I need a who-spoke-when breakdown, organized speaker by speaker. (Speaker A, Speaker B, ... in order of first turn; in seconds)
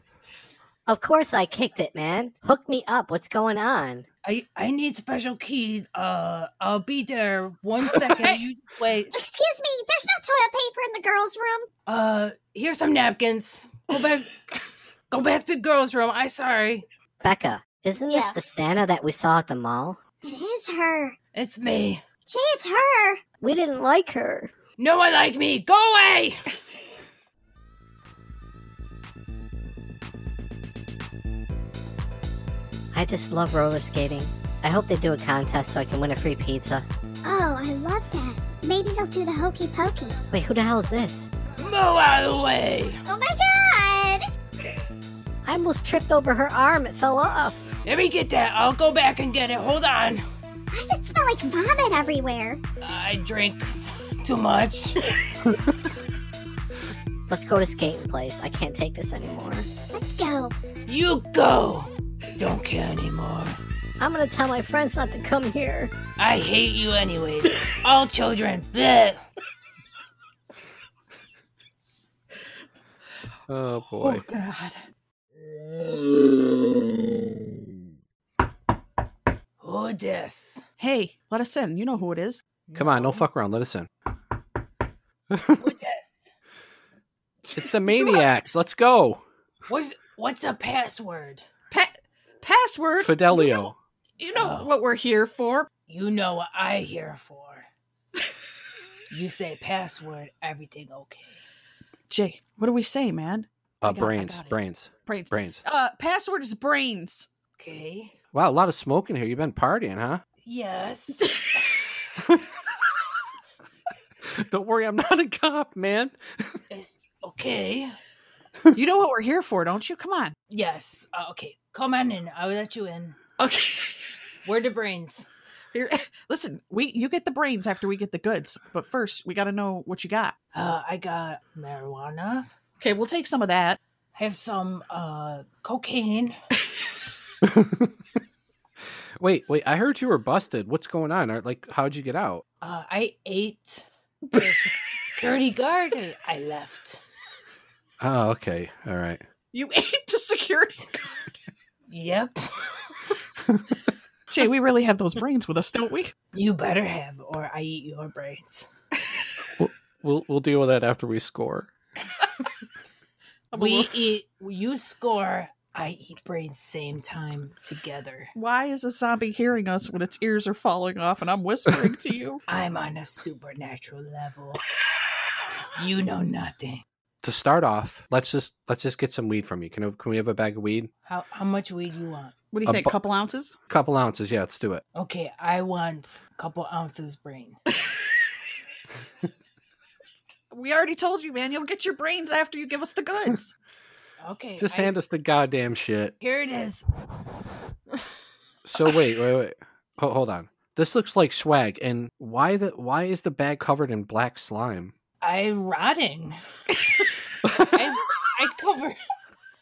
Speaker A: 0.8-4.1, 17.2-20.0, 23.4-24.5, 32.9-36.9, 40.3-41.3, 45.4-47.6, 57.3-59.7, 64.0-65.9
Speaker B: 4.2-9.1, 11.9-14.4, 15.1-16.8, 21.3-22.0, 24.8-26.4, 41.6-43.0, 47.8-50.2, 52.8-55.1, 60.9-63.6, 66.2-69.2, 74.0-74.7, 79.6-80.6, 82.7-83.2, 85.6-86.2, 89.7-91.4, 94.3-94.7, 95.9-97.7, 99.1-101.4, 107.6-108.1, 110.4-111.4, 116.7-118.0, 120.5-123.2, 124.5-125.3, 130.5-132.5, 134.1-136.4, 142.6-147.0, 151.9-152.5, 156.3-158.7, 163.5-168.3, 172.5-174.6, 175.8-176.8, 181.1-182.3, 184.9-187.6, 194.2-194.9, 196.2-196.8, 205.2-206.4, 207.6-209.0
Speaker C: 9.1-11.7, 20.2-21.1, 22.3-23.2, 37.2-40.2, 43.1-44.2, 50.7-52.6, 59.9-60.5
Speaker D: 73.5-74.3, 82.8-83.9, 85.3-85.6, 87.5-89.2, 93.0-93.7, 103.8-105.6, 108.3-110.2, 114.3-116.2, 137.4-137.9, 139.2-142.4, 148.0-149.2, 159.6-161.7, 177.2-180.9, 182.7-183.0, 183.7-184.8, 194.6-196.1, 198.7-204.9
Speaker E: 80.8-82.4, 91.7-95.7, 102.1-107.3, 118.7-120.3, 123.4-123.9, 125.7-130.3, 132.8-133.8, 149.5-151.2, 154.3-156.1, 163.5-163.9, 168.3-172.4, 182.5-183.5, 190.5-193.5